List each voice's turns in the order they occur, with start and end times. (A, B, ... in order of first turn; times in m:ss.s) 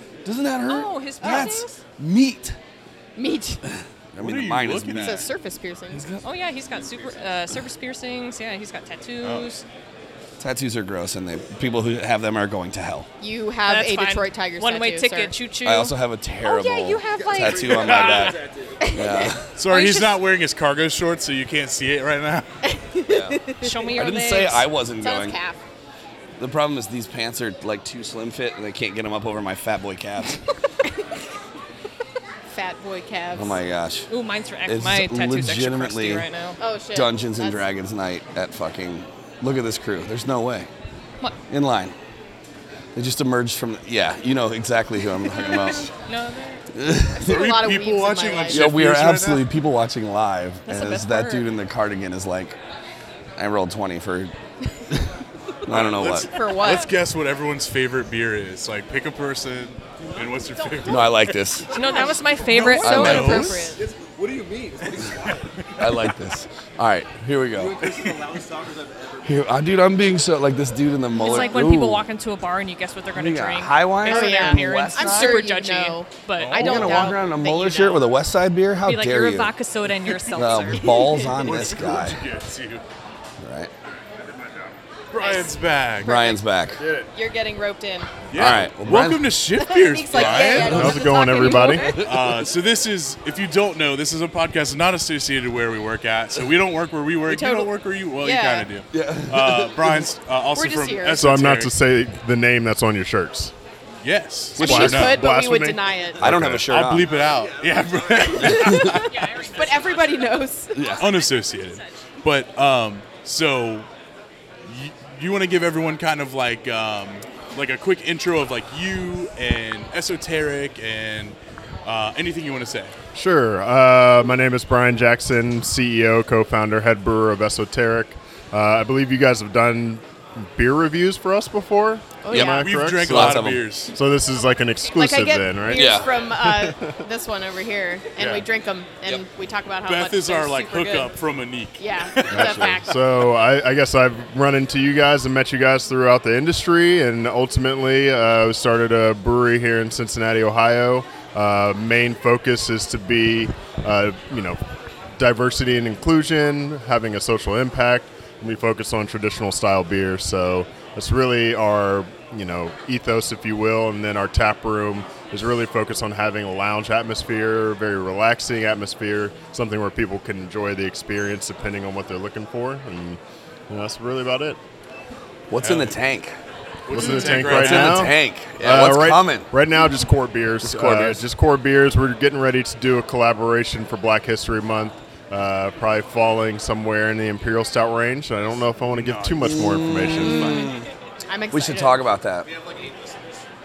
0:00.2-0:02.6 A
0:00.7-0:01.8 B
0:01.2-0:01.5 C
0:03.2-0:03.6 C
0:03.7-0:05.3 A
0:04.2-0:05.3 D
0:05.0-0:06.1 C
0:05.9-0:06.2 A
0:06.2-0:09.6 B
0:06.7-0:07.2 E
0:09.2-0:09.5 D
0:10.4-0:13.1 A
0:13.2-0:15.4 C
0:13.6-0:18.3 B
0:15.6-0:18.4 A
0:17.2-0:19.0 E
0:18.8-0:19.1 C
0:18.9-0:19.5 A
0:19.6-0:22.5 D
0:19.6-0:20.2 B
0:22.6-0:24.0 C
0:23.1-0:23.4 A
0:23.6-0:24.7 B
0:24.0-0:25.4 A
0:25.0-0:25.6 C
0:26.4-0:30.4 A
0:32.5-0:33.6 C
0:33.3-0:34.1 A
0:34.1-0:36.6 B
0:34.6-0:36.2 A
0:36.6-0:37.6 C
0:36.9-0:40.7 A
0:41.5-0:41.9 A
0:42.9-0:45.9 A
0:45.4-0:46.6 B
0:46.7-0:47.5 A
0:47.1-0:48.7 C
0:47.2-0:49.5 D
0:48.5-0:52.6 A
0:50.7-0:51.5 B
0:53.4-0:54.3 A
0:54.9-0:56.3 A
0:55.7-1:01.3 D
0:56.2-0:56.9 C
1:00.7-1:01.0 C
1:00.8-1:01.7 A
1:01.7-1:03.7 B
1:01.7-1:03.8 C
1:02.4-1:03.6 D
1:02.8-1:03.6 A
1:03.8-1:05.4 E
1:05.8-1:08.0 A
1:07.5-1:09.8 E
1:09.2-1:12.0 A
1:11.1-1:17.4 B
1:13.1-1:15.4 A
1:14.0-1:18.0 C
1:16.4-1:16.9 D
1:16.5-1:19.5 A
1:18.8-1:21.2 B
1:20.3-1:22.2 A
1:20.8-1:21.4 C
1:21.3-1:22.8 D
1:23.4-1:23.7 A
1:25.1-1:26.1 D
1:25.2-1:25.5 C
1:26.0-1:26.8 A
1:26.0-1:26.4 C
1:26.8-1:27.1 F
1:27.1-1:28.3 C
1:28.3-1:31.0 D
1:28.3-1:29.3 A
1:29.6-1:32.0 C
1:30.4-1:30.9 A
1:30.4-1:31.9 F
1:31.8-1:32.4 A
1:31.9-1:41.7 D
1:37.2-1:38.7 C
1:38.9-1:40.0 A
1:40.5-1:41.2 C
1:41.2-1:43.5 F
1:44.0-1:45.2 D
1:44.6-1:46.8 F
1:44.6-1:45.1 A
1:44.6-1:46.3 C
1:46.2-1:47.1 A
1:46.4-1:49.3 D
1:47.0-1:50.4 E
1:48.4-1:49.0 A
1:48.8-1:51.0 C
1:48.9-1:51.9 B
1:50.7-1:51.1 A
1:51.0-1:53.9 D
1:54.6-2:02.9 D
2:03.1-2:17.0 F
2:12.2-2:12.8 C
2:12.3-2:13.6 A
2:12.3-2:14.0 D
2:14.9-2:21.2 C
2:15.7-2:16.1 A
2:18.2-2:18.4 D
2:19.8-2:22.7 D
2:21.8-2:23.0 C
2:22.3-2:22.7 A
2:22.3-2:34.6 F
2:35.2-2:54.6 F
2:55.5-2:56.4 A
2:55.6-2:56.0 D
2:56.9-2:58.1 D
2:56.9-3:10.7 F
2:57.0-2:59.5 A
3:00.6-3:01.2 A
3:08.9-3:10.3 D
3:09.4-3:10.9 A
3:10.2-3:10.8 C
3:11.3-3:12.1 C
3:11.5-3:12.5 A
3:12.4-3:13.4 E